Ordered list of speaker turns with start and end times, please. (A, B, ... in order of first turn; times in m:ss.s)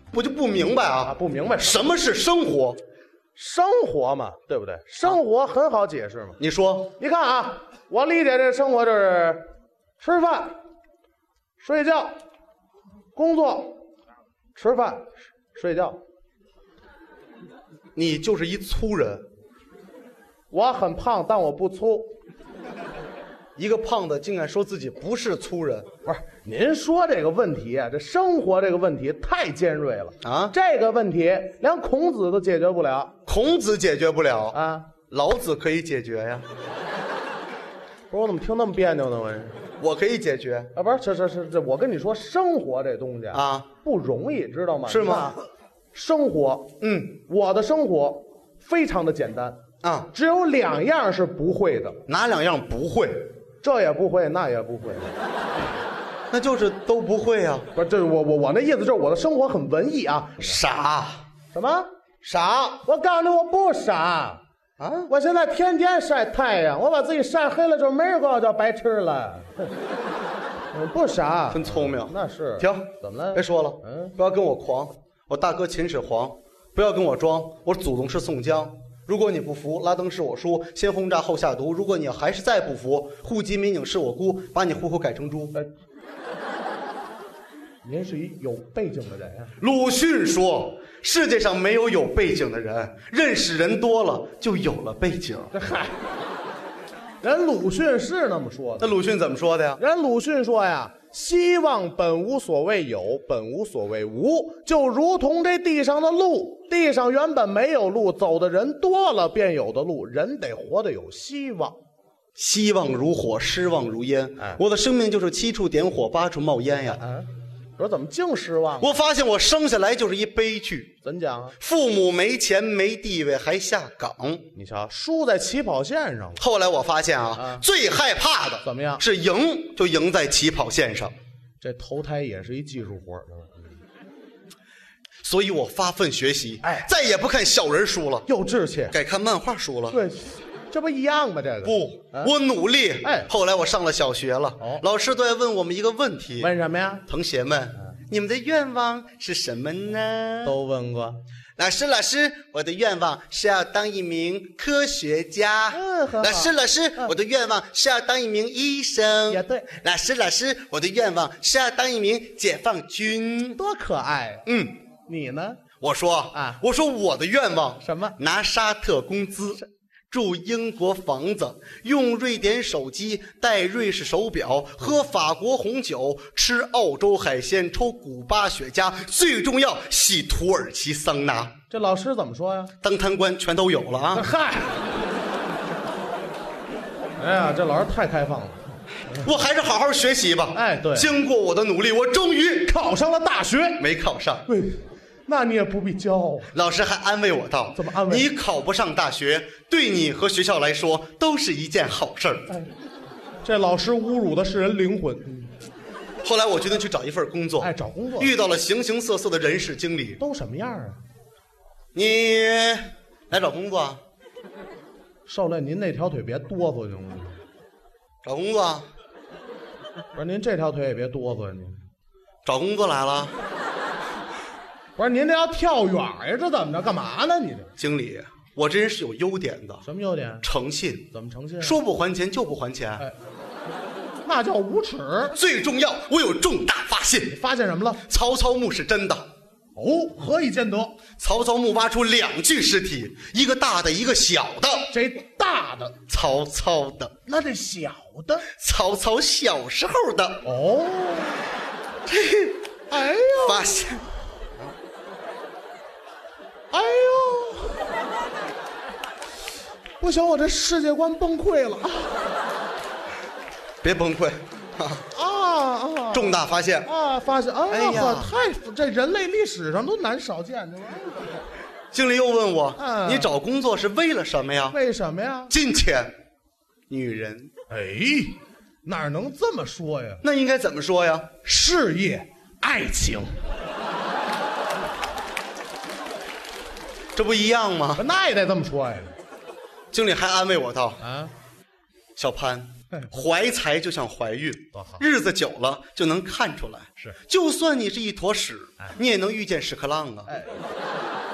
0:00.1-0:02.8 A
0:01.0-0:01.9 B
0:03.4-0:06.4 B
0:06.4-0:06.9 A
0:07.0-0:09.4 B
0:10.0-0:10.5 B
0:11.6-0:12.1 B
0:13.1-0:13.8 B
0:14.6-0:16.0 B
0:18.0-0:19.2 A
0:20.5-0:22.1 B
0:23.6-0:25.9 A
0:26.0-0:33.1 B
0:30.2-0:30.5 A
0:33.2-0:34.6 A
0:34.5-0:34.9 B
0:35.1-0:36.4 A
0:38.1-0:39.5 B
0:39.8-0:40.7 A
0:40.7-0:45.4 B
0:43.3-0:43.7 A
0:44.9-0:45.4 A
0:45.9-0:46.7 B
0:46.8-0:47.2 A
0:47.2-0:49.6 B
0:49.8-0:50.1 A
0:50.1-0:52.0 B
0:52.1-0:53.3 A
0:53.6-0:55.1 B
0:56.3-0:57.7 A
0:57.7-1:00.5 B
1:00.4-1:01.2 A
1:01.5-1:01.9 B
1:02.2-1:02.8 A
1:02.7-1:04.4 B
1:04.8-1:05.1 A
1:05.1-1:09.7 B
1:10.7-1:14.1 B
1:11.5-1:25.5 A
1:27.8-1:29.5 B
1:29.6-1:35.5 A
1:35.5-1:35.9 B
1:37.2-1:38.9 B
1:38.8-1:39.8 A
1:39.8-1:51.8 B
1:52.4-1:57.0 A
1:57.0-1:59.0 B
1:58.8-2:00.9 A
2:01.0-2:01.6 B
2:01.6-2:04.4 A
2:04.5-2:06.4 B
2:06.4-2:11.1 A
2:07.4-2:07.6 B
2:08.6-2:09.0 B
2:11.6-2:13.7 B
2:15.2-2:18.2 A
2:16.6-2:16.9 B
2:18.2-2:19.0 B
2:18.9-2:20.0 A
2:19.9-2:22.3 B
2:21.6-2:26.5 A
2:23.0-2:23.3 B
2:26.4-2:27.0 B
2:27.1-2:30.6 A
2:30.4-2:31.2 B
2:31.6-2:43.6 A
2:35.7-2:36.5 B
2:39.3-2:39.7 B
2:43.6-2:44.4 B
2:44.4-2:44.8 A
2:45.1-2:45.6 B
2:45.8-3:01.5 A
2:46.3-2:46.6 B
2:47.8-2:48.2 B
3:01.7-3:02.7 B
3:02.8-3:04.3 A
3:04.1-3:04.8 B
3:07.2-3:08.7 B
3:09.1-3:12.7 A
3:10.5-3:11.1 B
3:12.6-3:13.8 B
3:13.8-3:14.4 A
3:14.5-3:16.5 B
3:16.5-3:22.5 A
3:17.7-3:18.2 B
3:23.4-3:25.5 B
3:26.2-3:30.2 A
3:27.6-3:28.3 B
3:30.2-3:31.0 B
3:31.9-3:34.0 A
3:35.2-3:37.4 B
3:38.2-3:38.9 A
3:40.1-3:41.8 B
3:42.4-3:43.4 A
3:45.0-3:47.7 B
3:47.8-3:49.8 A
3:49.8-3:50.5 B
3:50.4-3:51.1 A
3:51.1-3:51.8 B
3:51.6-3:53.0 A
3:54.2-3:55.4 B
3:55.3-3:57.4 A
3:57.3-3:58.0 B
3:58.0-3:59.2 A
3:59.8-4:00.9 B
4:01.2-4:04.9 A
4:04.9-4:06.0 B
4:06.1-4:07.1 A
4:07.2-4:08.5 B
4:08.5-4:10.4 A
4:10.4-4:11.4 B
4:12.1-4:12.6 A
4:12.9-4:13.7 B
4:13.3-4:14.1 A
4:16.7-4:17.8 B
4:20.0-4:22.1 B
4:23.8-4:25.0 A
4:25.1-4:31.3 B
4:26.1-4:26.9 A
4:27.7-4:28.4 A
4:31.9-4:34.8 A
4:32.8-4:33.3 B
4:34.7-4:35.5 B
4:35.5-4:36.1 A
4:36.9-4:37.5 A
4:37.7-4:40.2 B
4:40.2-4:41.3 A
4:41.4-4:43.3 B
4:47.1-4:48.0 A
4:48.0-4:49.1 B
4:49.9-4:51.0 A
4:51.0-4:51.3 B
4:52.2-5:00.3 A
4:54.7-4:55.0 B
5:00.3-5:00.5 B